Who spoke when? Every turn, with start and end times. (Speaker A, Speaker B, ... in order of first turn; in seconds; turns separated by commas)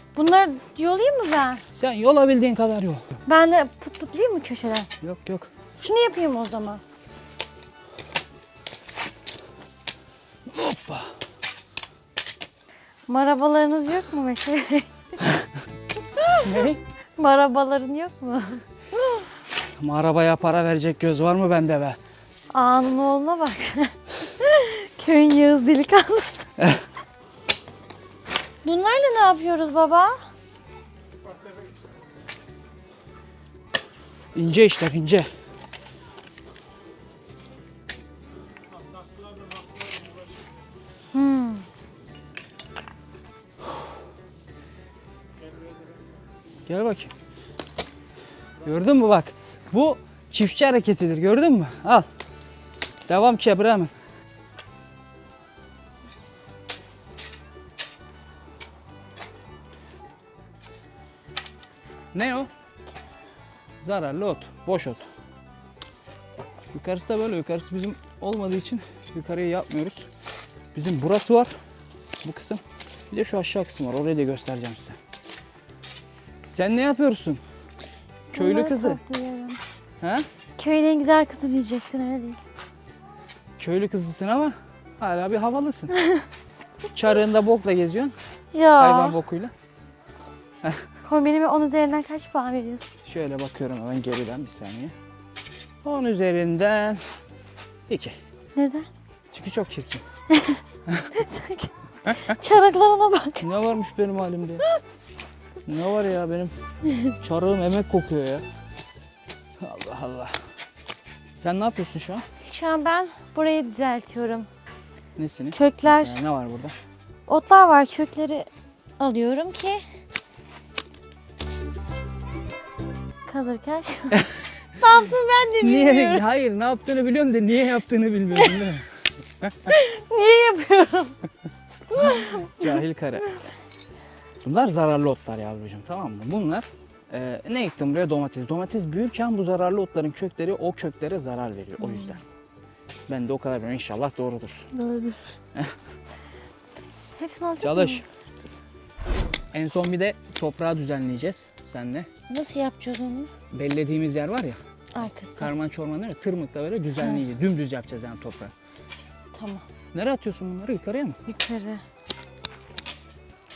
Speaker A: 0.1-1.6, Speaker B: 1.7-3.2, Speaker A: 3.2-4.9, Speaker B: 5.0-5.5, Speaker A: 5.8-6.8, Speaker B: 10.5-11.1, Speaker A: 13.1-15.2, Speaker A: 16.1-16.4, Speaker B: 16.4-16.8, Speaker A: 17.2-19.2, Speaker B: 19.8-22.0, Speaker A: 22.5-26.5, Speaker A: 28.6-30.2, Speaker B: 34.3-35.3, Speaker A: 41.1-41.6, Speaker B: 46.6-47.1, Speaker B: 48.6-52.1, Speaker B: 53.1-53.9, Speaker B: 62.1-62.5, Speaker B: 63.8-65.1, Speaker B: 66.7-70.1, Speaker B: 70.7-71.5, Speaker B: 72.2-75.0, Speaker B: 76.4-77.4, Speaker B: 78.3-79.0, Speaker A: 78.3-79.6, Speaker B: 80.0-80.2, Speaker A: 80.6-82.4, Speaker B: 83.6-86.0, Speaker A: 85.9-86.3, Speaker B: 86.9-88.1, Speaker A: 88.5-89.2, Speaker B: 88.8-89.5, Speaker A: 91.0-92.9, Speaker B: 93.0-94.9, Speaker B: 95.8-97.0, Speaker B: 97.9-98.2, Speaker A: 98.5-98.9, Speaker B: 99.3-100.0, Speaker A: 100.3-100.6, Speaker A: 101.1-103.5, Speaker B: 102.0-102.3, Speaker B: 103.4-104.7, Speaker B: 105.7-106.5, Speaker B: 107.2-108.4, Speaker B: 109.6-110.3, Speaker B: 111.4-112.2, Speaker A: 112.4-114.5, Speaker B: 115.2-116.7, Speaker A: 115.5-116.2, Speaker A: 117.3-118.5, Speaker A: 119.0-119.8, Speaker A: 123.2-126.2, Speaker B: 124.1-124.4, Speaker B: 125.6-128.8, Speaker B: 129.4-129.7, Speaker A: 129.7-131.2, Speaker A: 131.9-132.8, Speaker B: 131.9-133.2, Speaker B: 134.4-142.2, Speaker A: 141.8-142.2, Speaker B: 143.1-144.7, Speaker A: 144.7-145.3, Speaker A: 147.2-148.0, Speaker B: 147.6-148.0, Speaker B: 149.5-152.1, Speaker A: 152.3-153.3, Speaker B: 153.5-158.5, Speaker A: 154.9-155.5, Speaker A: 159.3-159.6, Speaker B: 159.9-161.2, Speaker A: 161.3-161.8